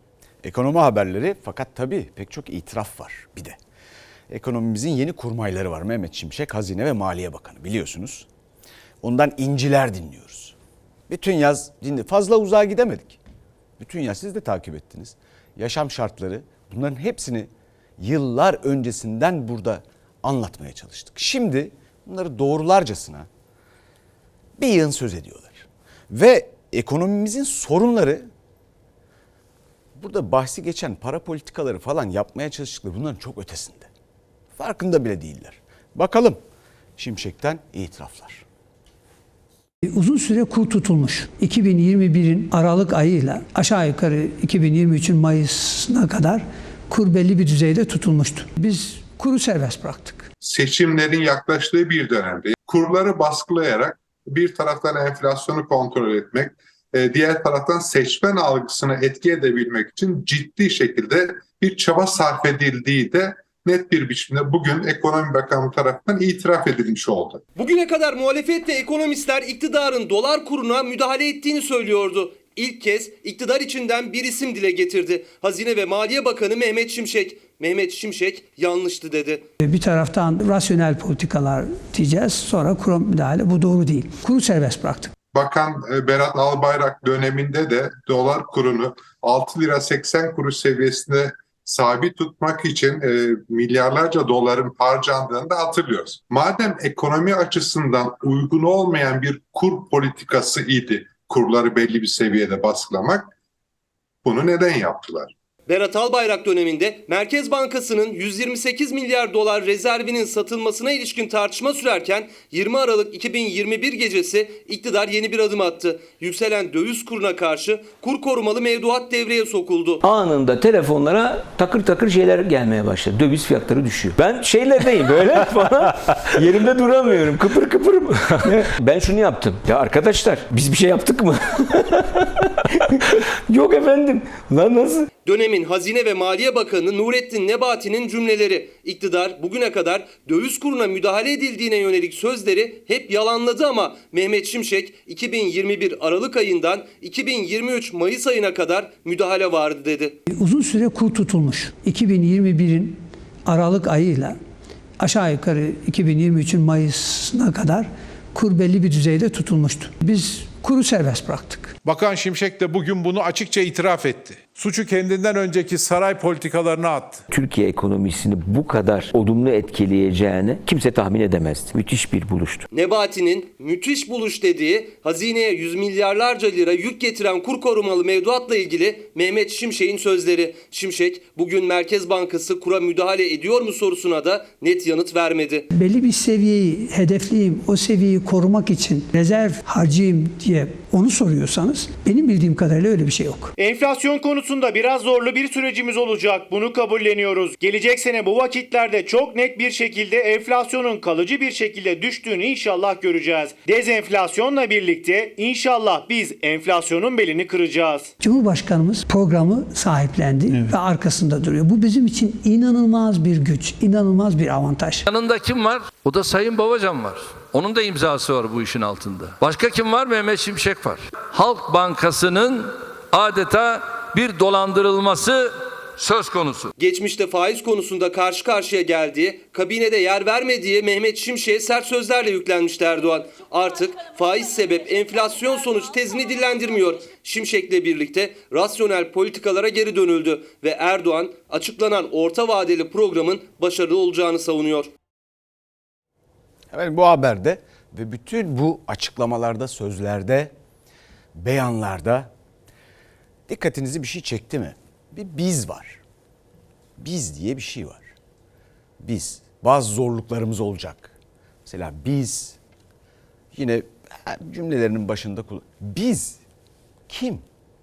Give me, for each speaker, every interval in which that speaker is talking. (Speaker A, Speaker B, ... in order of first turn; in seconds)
Speaker A: 0.4-3.6, 4.3-8.3, 9.0-10.6, 11.1-13.2, 13.8-23.3, 24.6-28.3, 30.0-33.9, 34.6-36.4, 37.0-38.5, 246.7-250.5, 251.3-252.3, 253.5-256.0, 257.0-258.1, 259.0-261.1, 261.7-262.6, 263.5-266.4, 267.1-267.4
Speaker B: 39.9-50.3, 79.6-85.1, 150.3-154.4, 155.0-161.8, 185.7-193.5, 208.2-215.0
Speaker C: 50.4-67.4, 85.3-103.3, 104.2-105.3
Speaker D: 67.6-79.4, 105.7-120.0, 135.3-150.2, 172.7-185.7, 226.8-244.9
Speaker E: 120.0-132.1, 133.5-135.1, 167.3-172.7
Speaker F: 161.8-167.2
Speaker G: 193.6-208.1
Speaker H: 215.1-226.7